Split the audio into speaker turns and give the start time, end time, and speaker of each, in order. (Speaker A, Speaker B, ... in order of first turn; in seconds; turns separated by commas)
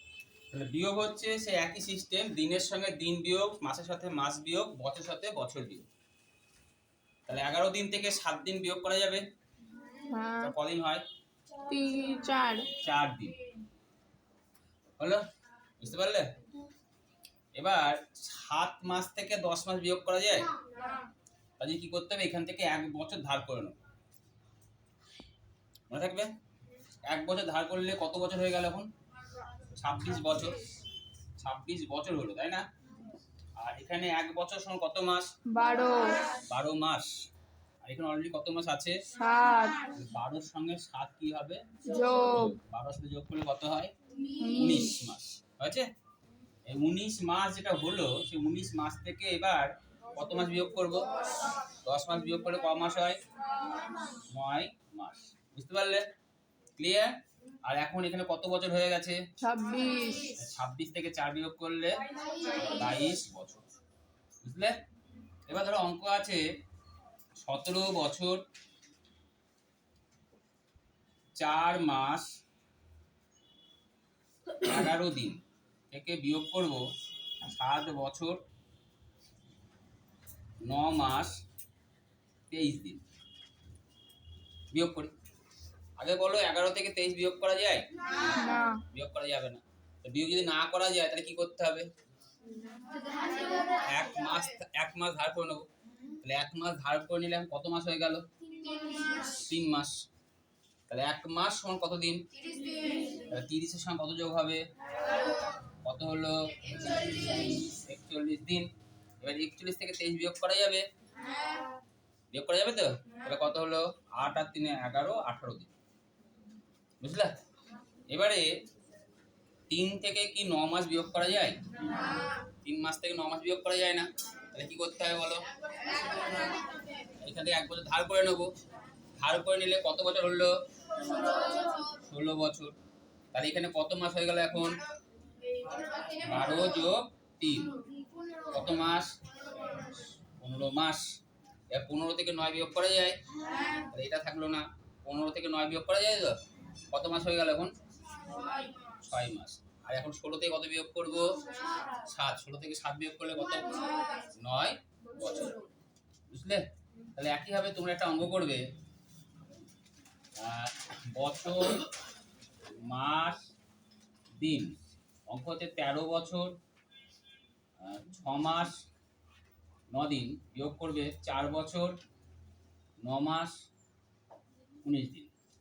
Speaker A: 0.5-5.9, Speaker A: 7.3-9.2, Speaker B: 10.1-10.5, Speaker A: 10.4-11.0, Speaker B: 11.7-12.7, Speaker A: 12.8-13.3, Speaker A: 15.8-16.3, Speaker A: 17.6-20.5, Speaker A: 21.6-23.8, Speaker A: 25.9-26.3, Speaker A: 27.0-28.9, Speaker A: 29.7-30.6, Speaker A: 31.4-32.6, Speaker A: 33.6-35.3, Speaker B: 35.5-36.4, Speaker A: 36.3-37.1, Speaker A: 37.8-39.0, Speaker B: 39.1-39.9, Speaker A: 39.9-41.6, Speaker B: 41.8-42.5, Speaker A: 42.3-43.9, Speaker B: 44.4-45.0, Speaker A: 44.5-45.9, Speaker A: 46.7-51.1, Speaker A: 51.7-53.2, Speaker A: 54.1-56.0, Speaker A: 56.8-57.1, Speaker A: 57.6-59.2, Speaker B: 59.4-60.4, Speaker A: 60.3-63.7, Speaker A: 64.4-64.8, Speaker A: 65.5-66.4, Speaker A: 67.4-68.4, Speaker A: 71.4-72.2, Speaker A: 74.6-75.4, Speaker A: 75.9-76.8, Speaker A: 77.4-78.4, Speaker A: 80.6-81.4, Speaker A: 82.5-83.0, Speaker A: 84.7-85.1, Speaker A: 86.0-88.2, Speaker B: 88.2-88.8, Speaker A: 88.9-91.9, Speaker A: 93.7-95.7, Speaker A: 96.2-98.2, Speaker A: 99.2-100.0, Speaker A: 100.9-102.2, Speaker A: 103.2-104.6, Speaker A: 105.8-108.7, Speaker A: 109.2-110.8, Speaker A: 112.3-115.7, Speaker A: 117.0-117.3, Speaker A: 118.1-118.5, Speaker A: 119.7-121.6, Speaker A: 122.6-125.5, Speaker A: 127.2-128.5, Speaker A: 129.2-130.5, Speaker A: 131.8-132.7, Speaker A: 133.3-134.8, Speaker A: 136.0-137.8, Speaker A: 138.5-139.1, Speaker A: 140.4-141.0, Speaker A: 141.7-146.4, Speaker A: 146.9-147.7, Speaker A: 148.9-155.6, Speaker A: 156.3-156.6, Speaker A: 157.1-158.6, Speaker A: 160.4-161.9, Speaker A: 162.7-163.4, Speaker A: 164.4-164.8, Speaker A: 165.3-166.5, Speaker A: 167.8-168.8, Speaker A: 169.9-172.0, Speaker A: 173.0-173.5, Speaker A: 174.8-175.3